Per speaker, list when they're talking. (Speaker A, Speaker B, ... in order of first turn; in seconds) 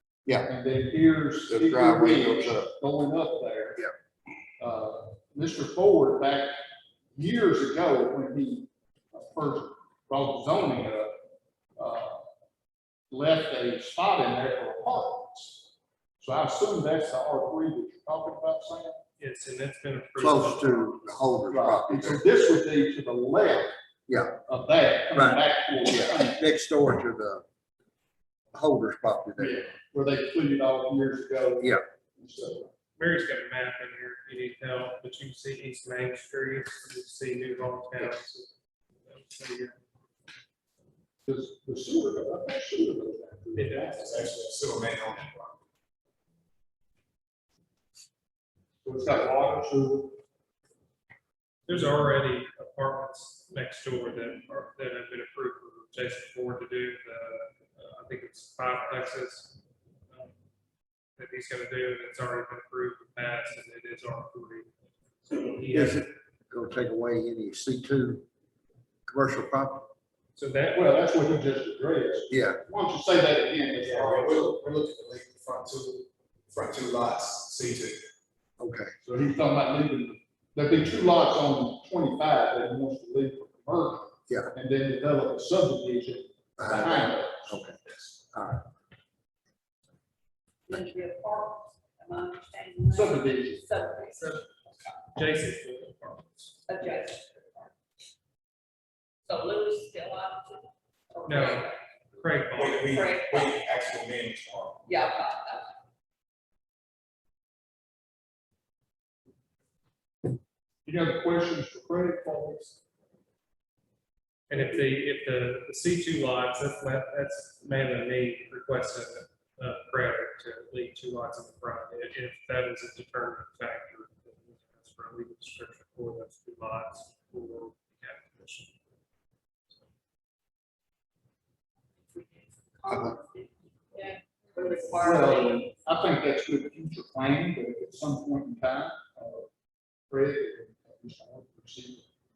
Speaker A: 0.2-0.5, 1.5-2.7, 20.2-22.2, 24.1-24.3, 25.1-27.4, 28.5-29.6, 65.7-68.2, 69.1-69.9, 72.3-72.6, 78.6-78.9, 84.3-84.5, 86.6-87.8, 88.3-88.6
Speaker B: 0.5-3.8, 4.6-6.5, 7.1-11.1, 11.8-12.2, 13.1-15.7, 16.2-19.0, 21.5-23.7, 24.3-26.4, 29.4-32.7, 41.2-44.2, 48.8-50.2, 70.7-74.5, 79.0-87.6, 92.9-93.7, 110.8-112.8, 134.9-139.5, 140.1-142.1
Speaker C: 19.2-21.2, 33.0-38.5, 39.0-39.8, 43.5-44.4, 51.7-59.6, 61.2-66.0, 70.3-71.0, 94.2-94.5, 95.0-96.7, 101.2-102.9, 114.5-128.7
Speaker D: 44.1-45.6, 73.8-78.0, 102.5-104.9
Speaker E: 90.7-95.0, 96.7-97.7, 99.2-101.8, 102.9-103.6, 104.8-105.8, 132.1-135.7